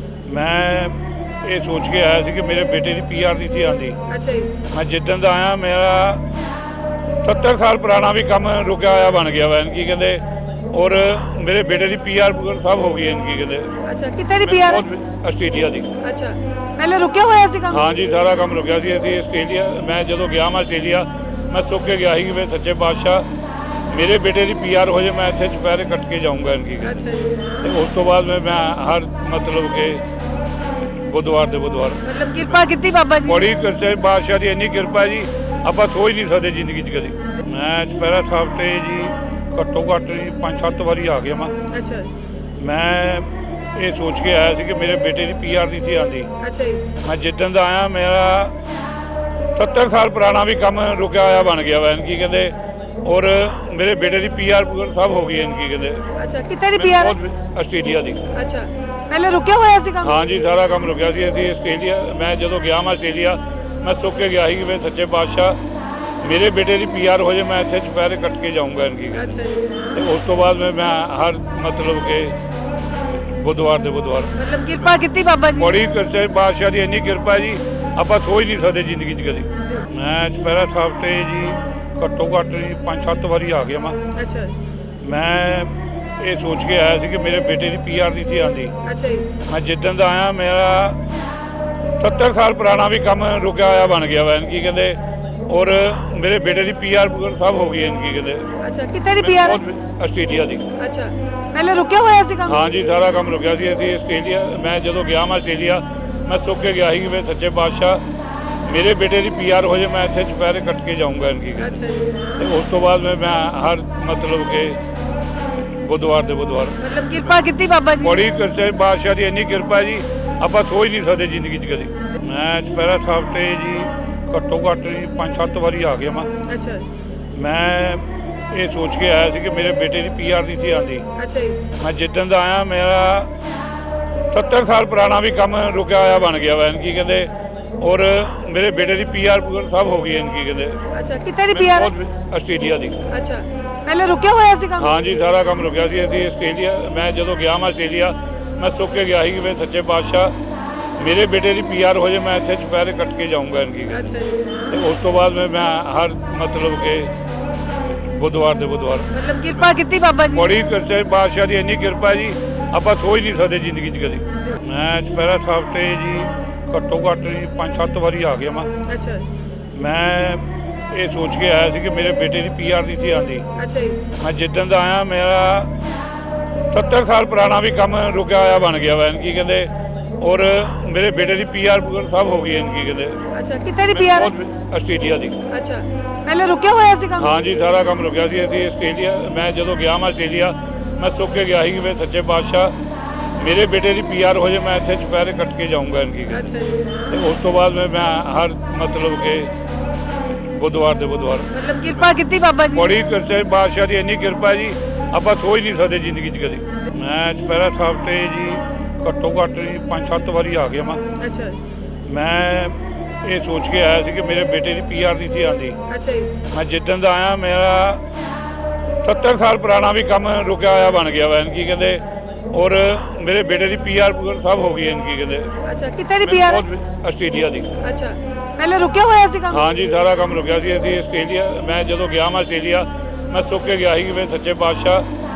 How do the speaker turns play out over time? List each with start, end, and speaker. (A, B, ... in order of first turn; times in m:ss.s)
0:00.2-0:04.0 A
0:04.1-0:04.5 B
0:04.7-0:06.2 A
0:07.1-0:13.8 A
0:13.8-0:14.8 B
0:14.4-0:15.9 A
0:16.0-0:17.8 B
0:17.7-0:23.3 A
0:23.9-0:27.0 A
0:26.8-0:27.4 B
0:27.6-0:30.0 A
0:30.8-0:32.0 A
0:32.0-0:33.4 B
0:33.2-0:41.6 A
0:41.7-0:42.1 B
0:42.6-0:46.3 A
0:46.4-0:46.8 B
0:47.0-0:48.5 A
0:49.4-0:56.1 A
0:56.2-0:57.2 B
0:56.8-0:58.2 A
0:58.3-1:00.1 B
1:00.0-1:05.6 A
1:06.2-1:09.3 A
1:09.1-1:09.7 B
1:09.9-1:12.4 A
1:13.2-1:14.3 A
1:14.3-1:15.7 B
1:15.5-1:24.0 A
1:24.1-1:24.5 B
1:25.0-1:28.8 A
1:28.8-1:29.3 B
1:29.5-1:31.0 A
1:31.9-1:38.5 A
1:38.6-1:39.6 B
1:39.2-1:40.6 A
1:40.8-1:42.6 B
1:42.4-1:48.0 A
1:48.6-1:51.7 A
1:51.6-1:52.1 B
1:52.4-1:54.8 A
1:55.6-1:57.3 A
1:56.8-1:58.1 B
1:58.0-2:06.3 A
2:06.4-2:06.8 B
2:07.3-2:11.1 A
2:11.2-2:11.6 B
2:11.8-2:13.3 A
2:14.2-2:20.8 A
2:20.9-2:21.9 B
2:21.5-2:23.0 A
2:23.1-2:24.9 B
2:24.8-2:30.3 A
2:31.0-2:34.1 A
2:33.9-2:34.4 B
2:34.7-2:37.1 A
2:37.9-2:39.1 A
2:39.1-2:40.4 B
2:40.3-2:48.7 A
2:48.8-2:49.2 B
2:49.7-2:53.5 A
2:53.6-2:54.0 B
2:54.2-2:55.7 A
2:56.6-3:03.2 A
3:03.3-3:04.3 B
3:03.9-3:05.4 A
3:05.5-3:07.3 B
3:07.2-3:12.7 A
3:13.4-3:16.5 A
3:16.3-3:16.8 B
3:17.1-3:19.5 A
3:20.3-3:21.6 A
3:21.5-3:22.8 B
3:22.7-3:31.0 A
3:31.2-3:31.6 B
3:32.0-3:35.8 A
3:35.9-3:36.3 B
3:36.5-3:38.0 A
3:38.9-3:45.5 A
3:45.6-3:46.6 B
3:46.2-3:47.7 A
3:47.8-3:49.6 B
3:49.5-3:55.0 A